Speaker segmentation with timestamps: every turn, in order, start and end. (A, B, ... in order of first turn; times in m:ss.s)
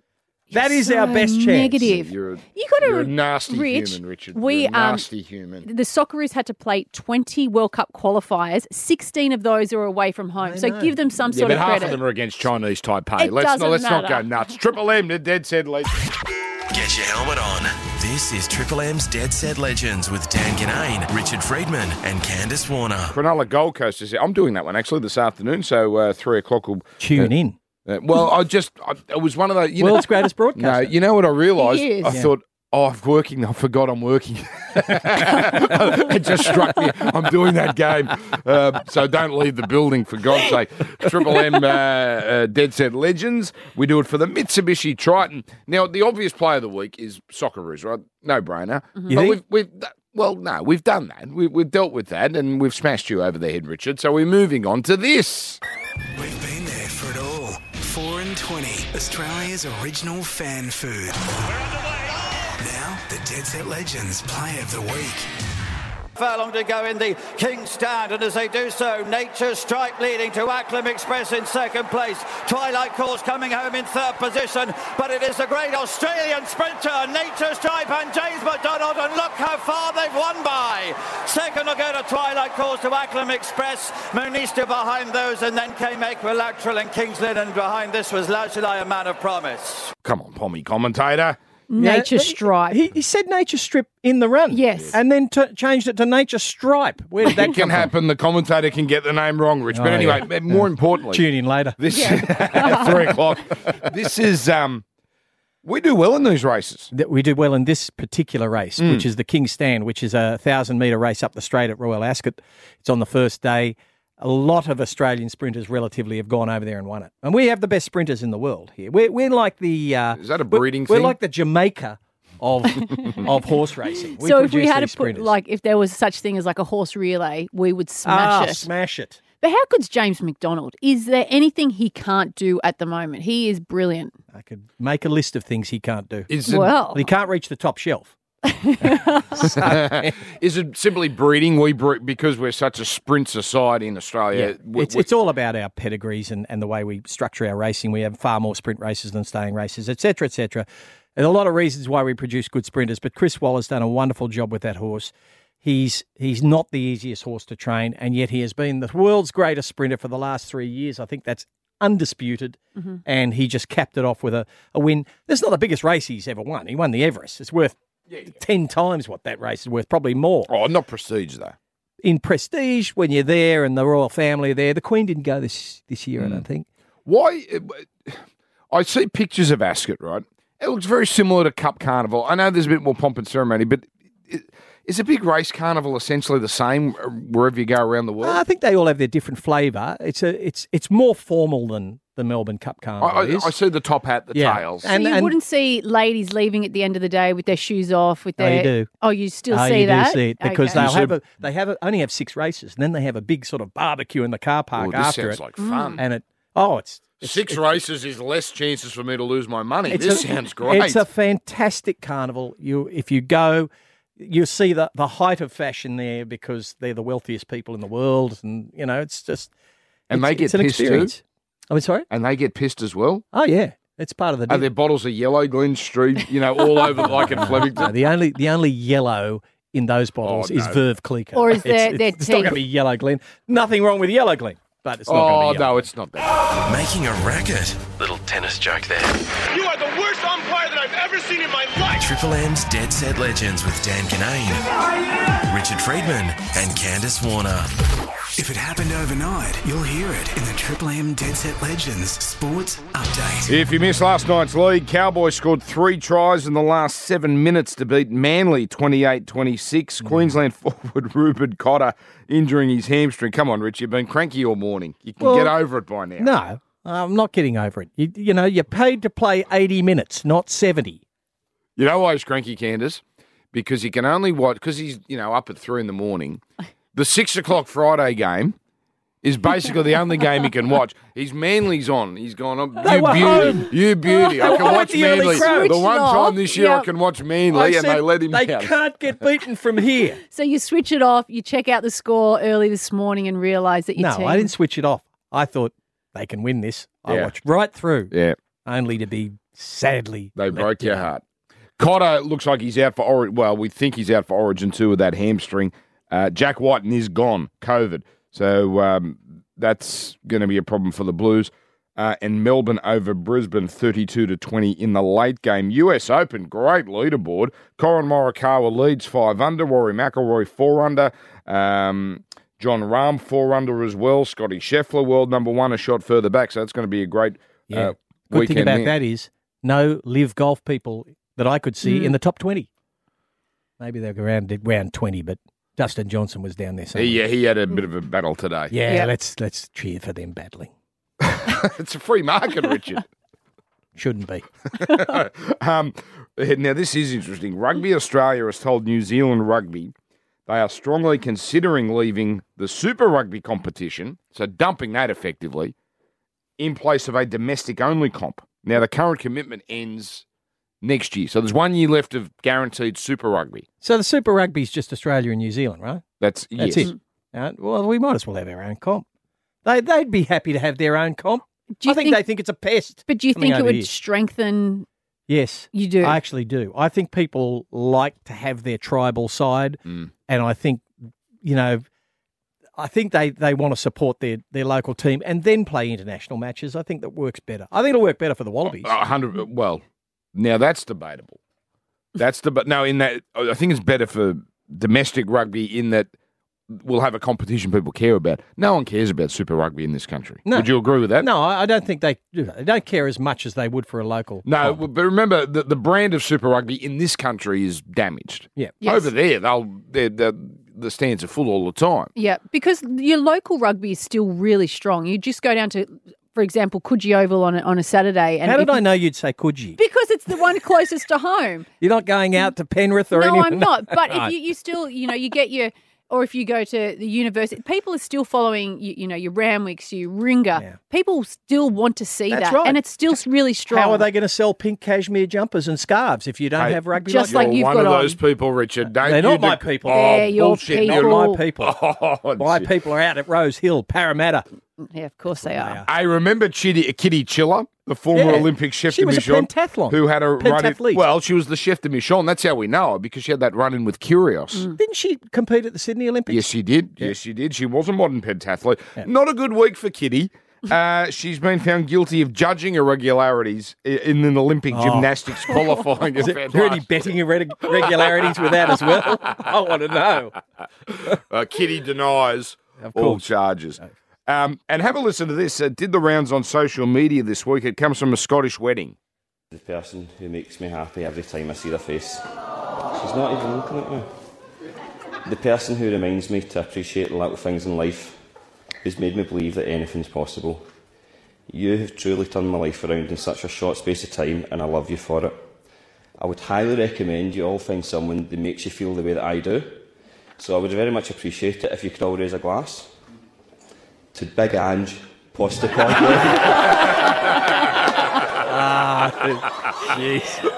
0:00.5-0:05.1 A
0:00.5-0:01.9 B
0:01.8-0:05.7 C
0:05.6-0:12.0 A
0:10.4-0:11.0 B
0:11.3-0:15.9 C
0:13.2-0:14.3 A
0:16.7-0:23.2 D
0:23.1-0:27.3 C
0:27.0-0:27.6 B
0:27.9-0:55.6 C
0:29.8-0:31.0 B
0:31.6-0:32.2 A
0:32.1-0:32.3 B
0:49.1-0:49.4 B
0:56.2-1:01.5 E
1:02.6-1:05.3 E
1:06.2-1:29.9 F
1:30.0-1:31.4 C
1:31.7-1:32.8 A
1:31.8-1:37.9 B
1:34.5-1:35.0 A
1:37.2-1:41.2 C
1:39.7-1:42.8 B
1:41.8-1:44.8 C
1:41.9-1:42.9 A
1:45.6-1:46.9 C
1:46.9-2:05.3 B
1:48.8-1:49.0 C
2:00.2-2:01.2 C
2:04.2-2:08.7 A
2:08.0-2:09.2 B
2:09.4-2:14.2 A
2:14.3-2:18.2 B
2:16.3-2:16.7 C
2:16.5-2:17.0 A
2:18.4-2:19.5 A
2:18.8-2:20.2 B
2:19.4-2:25.1 C
2:24.3-2:50.5 B
2:50.5-2:51.6 C
2:52.0-2:56.7 B
2:57.1-2:58.2 C
2:58.7-3:08.4 C
3:08.2-3:13.5 B
3:13.0-3:14.9 C
3:14.3-3:15.4 B
3:14.8-3:20.8 A
3:18.4-3:18.9 B
3:19.5-3:25.4 B
3:20.7-3:21.2 C
3:24.8-3:26.0 C
3:25.6-3:26.0 A
3:26.0-3:27.8 B
3:27.2-3:31.0 C
3:29.9-3:39.5 B
3:40.1-3:41.1 C
3:40.1-3:42.1 B
3:42.1-3:43.2 C
3:43.3-3:44.7 B
3:44.5-3:47.9 C
3:46.9-3:55.9 B
3:50.2-3:50.8 C
3:51.4-3:52.6 A
3:55.1-3:56.4 C
3:56.6-3:59.2 D
3:59.5-4:02.1 G
4:01.9-4:04.7 D
4:05.4-4:07.7 D
4:08.4-4:13.6 E
4:13.5-4:26.3 C
4:20.0-4:20.4 B
4:25.2-4:25.6 B
4:26.2-4:31.0 B
4:31.8-4:36.4 C
4:36.9-4:38.6 C
4:39.2-4:48.7 C
4:42.8-4:45.8 B
4:44.1-4:46.9 A
4:47.5-4:50.2 B
4:50.3-4:54.5 A
4:54.0-4:58.1 B
4:57.1-4:57.3 C
4:58.1-4:58.4 C
4:58.6-5:01.1 B
5:00.4-5:01.2 C
5:01.8-5:28.9 C
5:27.7-5:32.7 B
5:31.8-5:32.2 A
5:33.8-5:37.2 B
5:37.0-5:38.7 C
5:38.7-5:40.7 B
5:41.2-5:43.0 C
5:44.0-5:44.5 B
5:44.8-5:49.9 C
5:50.5-5:55.8 C
5:56.6-6:00.2 C
6:00.8-6:03.7 C
6:03.8-6:06.0 B
6:06.2-6:06.9 C
6:06.6-6:09.0 B
6:09.6-6:13.9 B
6:11.8-6:12.2 A
6:13.1-6:14.9 A
6:15.3-6:20.9 B
6:15.7-6:16.2 A
6:21.4-6:21.8 B
6:22.8-6:29.0 B
6:28.7-6:29.8 C
6:30.4-6:31.4 C
6:32.2-6:36.1 C
6:36.7-6:41.3 C
6:40.5-6:44.8 B
6:44.4-6:52.1 C
6:48.8-6:49.1 A
6:52.2-6:58.8 A
6:58.4-6:59.8 B
6:59.8-7:01.7 A
7:01.8-7:04.3 B
7:03.1-7:14.1 A
7:12.3-7:12.8 B
7:13.7-7:17.6 B
7:16.6-7:22.7 C
7:17.0-7:18.2 A
7:19.0-7:21.8 B
7:19.9-7:21.4 A
7:22.4-7:24.5 B
7:24.8-7:25.8 A
7:25.4-7:25.9 B
7:25.9-7:34.7 C
7:28.1-7:31.0 B
7:34.8-7:37.1 B
7:36.3-7:47.1 C
7:44.7-7:45.6 B
7:46.2-7:50.4 B
7:47.7-7:49.5 C
7:50.9-7:59.0 C
7:52.8-7:53.3 B
7:59.5-8:02.3 H
8:02.9-8:04.1 H
8:05.2-8:08.2 H
8:08.8-8:10.6 H
8:11.5-8:15.4 H
8:16.2-8:19.8 H
8:20.4-8:22.9 H
8:24.1-8:26.5 H
8:28.4-8:30.5 B